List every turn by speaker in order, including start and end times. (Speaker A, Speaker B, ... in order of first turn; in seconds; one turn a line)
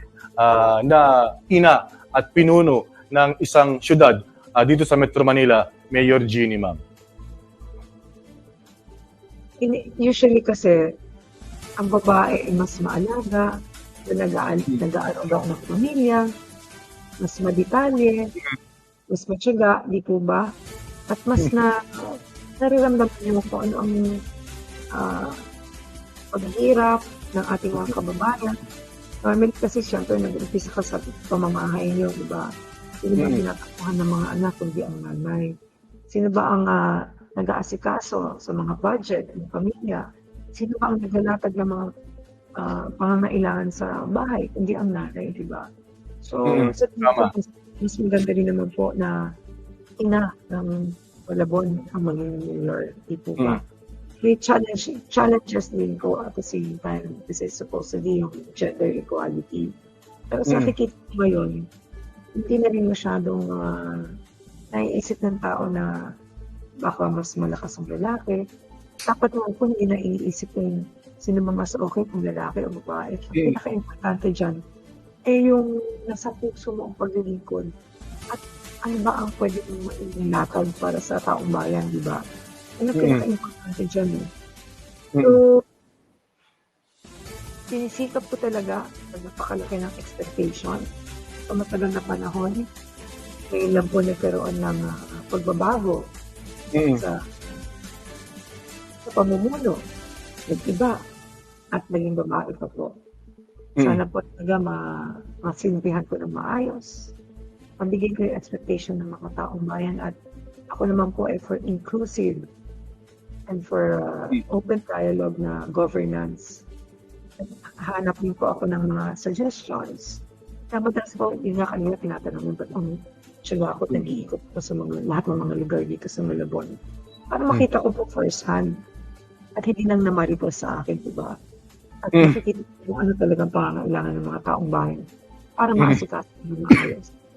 Speaker A: 0.4-6.8
Speaker B: 9.6-10.8
Speaker B: 11.8-13.5
Speaker B: 14.1-16.2
Speaker B: 17.2-18.2
Speaker B: 19.1-20.4
Speaker B: 21.1-24.1
Speaker B: 24.9-25.4
Speaker B: 26.3-28.6
Speaker B: 29.2-32.5
Speaker B: 33.0-35.5
Speaker A: 33.2-33.4
Speaker B: 36.1-36.8
Speaker B: 37.4-40.0
Speaker B: 40.5-41.9
Speaker B: 42.6-45.6
Speaker B: 46.2-49.1
Speaker A: 46.5-47.3
Speaker B: 50.0-53.6
Speaker B: 54.2-59.7
Speaker B: 60.3-61.6
Speaker A: 60.5-60.7
Speaker B: 62.4-63.9
Speaker B: 64.7-65.9
Speaker B: 66.8-68.4
Speaker B: 69.1-74.6
Speaker B: 75.3-77.7
Speaker B: 78.3-82.2
Speaker B: 82.8-84.2
Speaker A: 83.0-83.2
Speaker B: 85.2-85.5
Speaker B: 87.7-90.8
Speaker B: 91.5-92.6
Speaker B: 93.5-96.0
Speaker A: 96.7-97.0
Speaker B: 99.0-99.8
Speaker B: 100.5-101.0
Speaker B: 101.7-102.9
Speaker B: 103.8-104.8
Speaker B: 105.4-107.1
Speaker B: 107.8-110.1
Speaker B: 110.7-112.4
Speaker B: 113.5-116.7
Speaker B: 117.4-120.2
Speaker B: 120.7-126.8
Speaker B: 127.3-128.7
Speaker B: 129.6-131.4
Speaker B: 132.1-135.0
Speaker B: 135.6-137.1